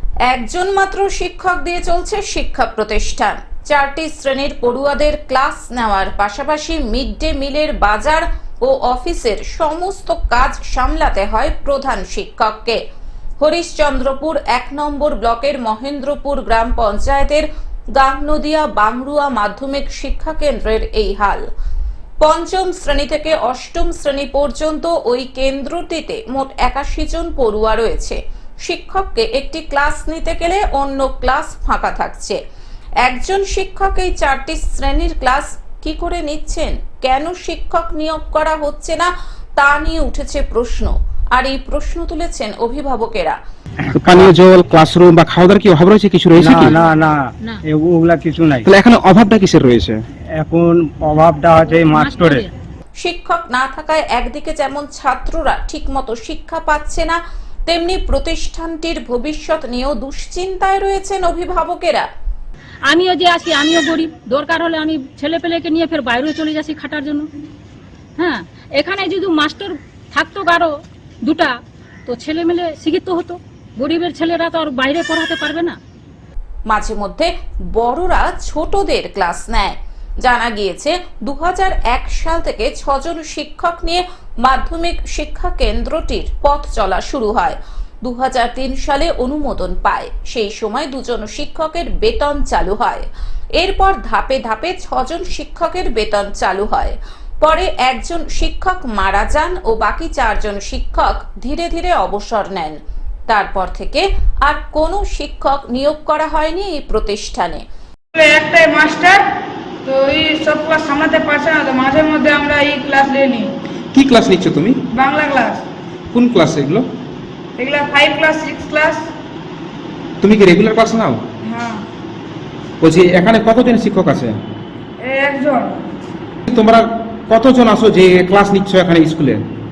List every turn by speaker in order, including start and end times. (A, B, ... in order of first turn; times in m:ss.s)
0:00.3-0:12.8 A
0:13.4-0:21.4 A
0:22.2-0:32.4 A
0:33.0-0:43.4 A
0:43.8-0:44.3 B
0:43.9-0:46.8 C
0:46.4-0:48.7 B
0:48.6-0:50.0 C
0:50.4-0:52.4 B
0:51.6-0:52.5 D
0:53.0-1:02.0 A
1:02.8-1:07.3 D
1:08.2-1:10.7 D
1:11.2-1:15.8 D
1:16.7-1:33.0 A
1:33.6-1:42.8 A
1:43.3-1:47.6 A
1:48.1-1:49.3 E
1:49.8-1:53.5 E
1:53.9-1:54.8 C
1:54.9-1:55.6 E
1:56.1-1:56.9 C
1:57.6-1:59.1 E
2:00.2-2:01.2 C
2:01.4-2:01.8 E
2:02.8-2:04.4 C
2:05.0-2:05.8 E
2:06.5-2:09.4 C